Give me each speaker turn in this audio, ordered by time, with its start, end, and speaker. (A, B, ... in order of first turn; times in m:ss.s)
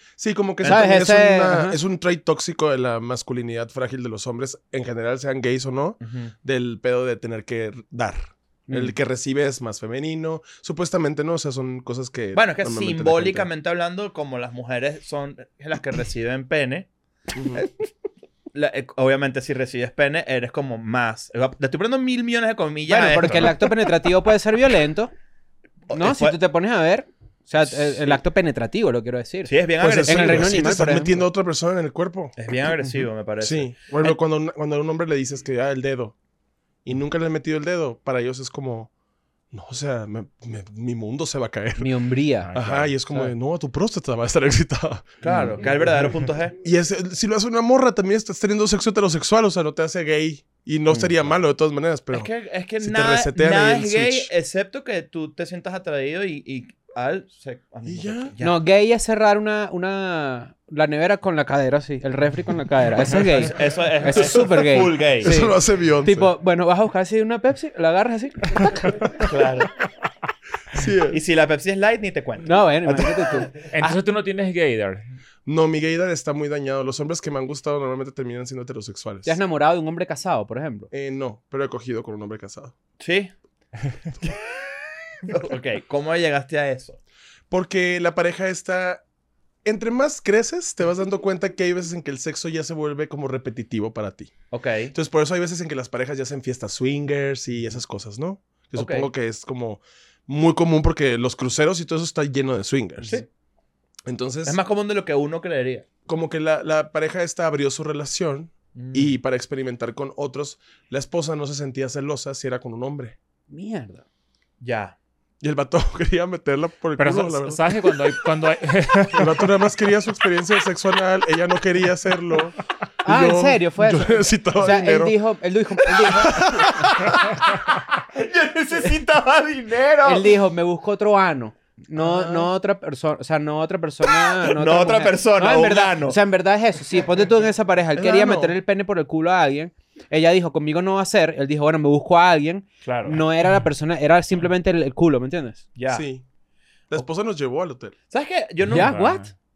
0:00.2-0:13.5 A
0:00.6-0:01.8 B
0:06.0-0:06.3 C
0:08.7-0:09.0 B
0:12.3-0:16.9 C
0:17.3-0:17.6 A
0:17.5-0:17.9 C
0:18.5-0:23.8 C
0:22.9-0:25.1 B
0:25.9-0:26.4 C
0:25.9-0:31.2 B
0:29.4-0:30.7 C
0:29.8-0:32.4 A
0:32.4-0:33.7 C
0:33.4-0:36.1 A
0:36.8-0:38.9 A
0:39.5-0:41.9 A
0:41.8-0:42.5 B
0:42.4-0:42.9 D
0:42.5-0:45.2 A
0:45.2-0:45.6 B
0:45.2-0:46.6 C
0:46.6-0:54.3 A
0:50.9-0:51.3 B
0:52.1-0:58.6 C
0:57.8-0:58.3 A
0:58.4-1:09.0 B
1:03.3-1:05.4 C
1:04.1-1:04.4 A
1:05.2-1:06.3 A
1:09.3-1:09.7 C
1:10.7-1:11.2 A
1:11.1-1:13.9 C
1:12.4-1:13.5 B
1:13.7-1:15.0 D
1:15.4-1:19.4 A
1:19.2-1:20.9 B
1:20.9-1:22.7 A
1:23.0-1:23.3 C
1:25.2-1:27.0 C
1:27.5-1:29.0 A
1:29.6-1:34.3 A
1:34.5-1:34.9 C
1:34.9-1:43.2 A
1:38.8-1:39.1 C
1:44.0-1:44.6 A
1:44.4-1:45.8 C
1:46.1-1:53.2 A
1:48.7-1:49.1 C
1:53.5-1:54.0 B
1:54.6-1:54.9 C
1:55.4-1:57.7 A
1:57.0-1:59.5 D
1:59.1-2:05.2 A
2:03.0-2:06.8 B
2:06.1-2:07.2 A
2:07.0-2:10.3 C
2:10.0-2:25.6 B
2:12.0-2:12.5 A
2:14.1-2:16.2 C
2:17.9-2:18.6 A
2:22.8-2:23.2 C
2:25.7-2:26.0 C
2:25.9-2:26.2 A
2:26.9-2:27.9 A
2:28.1-2:28.9 C
2:28.7-2:29.3 D
2:28.7-2:29.3 B